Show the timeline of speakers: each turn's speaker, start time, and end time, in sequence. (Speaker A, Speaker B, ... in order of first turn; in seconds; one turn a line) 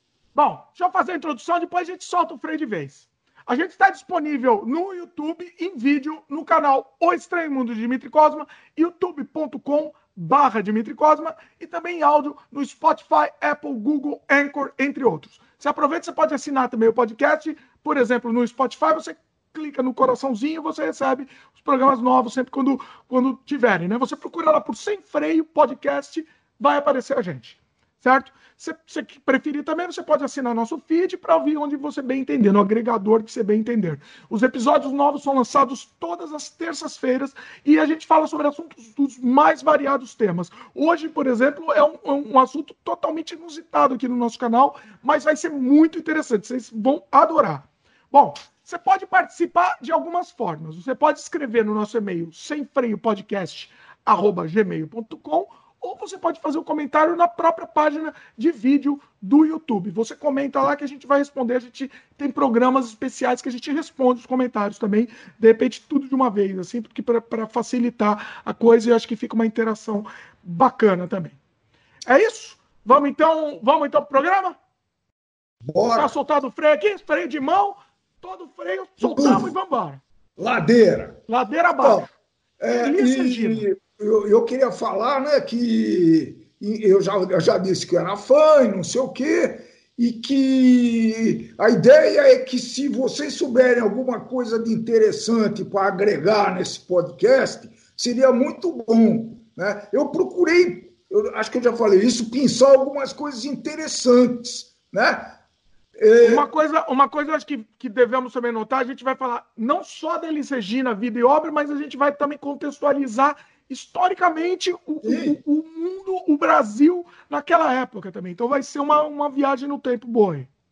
Speaker A: 0.3-71.4
Speaker A: 72.1-74.5
Speaker B: 75.7-76.1
Speaker A: 76.0-80.0
Speaker B: 79.0-79.5
Speaker B: 80.4-81.2
Speaker A: 81.3-82.1
Speaker B: 81.8-82.1
Speaker B: 82.6-105.3
Speaker A: 82.7-83.7
Speaker B: 106.0-106.5
Speaker A: 106.2-120.5
Speaker B: 115.0-115.4